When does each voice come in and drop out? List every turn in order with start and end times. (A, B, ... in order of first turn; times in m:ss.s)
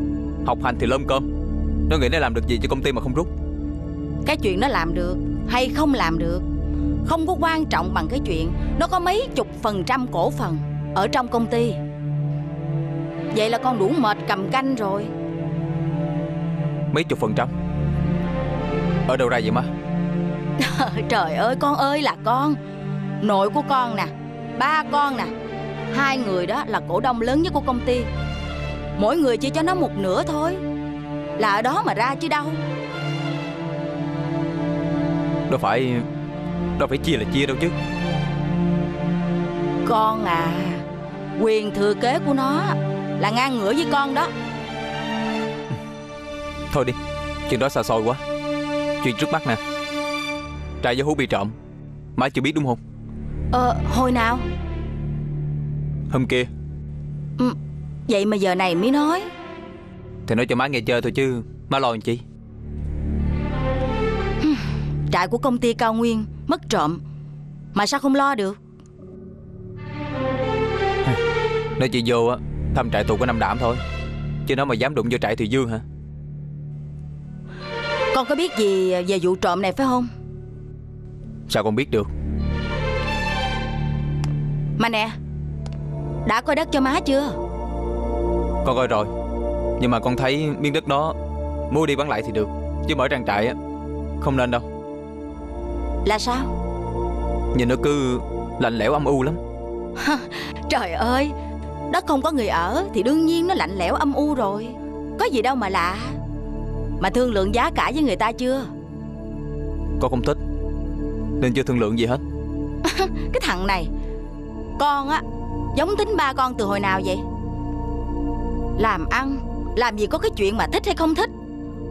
0:00.4-0:01.2 A
0:01.9-0:03.3 A
0:04.2-0:06.4 B
0:07.0-0:11.8 B
0:13.3-0:15.1 B
0:16.9-0:17.5 A
0:19.1-0:19.7 A
0:20.6-0:22.6 B
0:23.2-0:25.3 B
0:25.9-0:28.1 B
0:29.0-0:30.6 B
0:31.4-0:32.6 B
0:35.5-0:36.0 A
0:36.8-0:37.7 A
0:39.8-0:40.8 B
0:41.4-0:44.3 B
0:46.7-0:48.2 A
0:49.0-0:49.6 A
0:50.8-0:51.5 A
0:52.2-0:52.8 A
0:53.5-0:54.4 B
0:56.1-0:56.5 A
0:58.1-0:59.3 B
1:00.3-1:02.2 A
1:04.4-1:07.0 B
1:07.7-1:08.6 B
1:11.8-1:13.8 A
1:14.5-1:15.8 A
1:18.1-1:20.1 B
1:21.5-1:22.1 A
1:24.8-1:25.1 B
1:26.3-1:27.4 B
1:28.6-1:29.1 A
1:29.8-1:31.2 A
1:31.7-1:33.6 A
1:34.2-1:34.6 A
1:36.0-1:36.5 B
1:37.5-1:39.4 A
1:40.0-1:41.3 B
1:41.9-1:46.2 B
1:47.0-1:48.7 B
1:50.0-1:50.4 A
1:51.4-1:52.2 A
1:52.8-1:53.9 B
1:54.8-1:55.2 B
1:55.7-1:57.2 B
1:58.8-2:01.3 B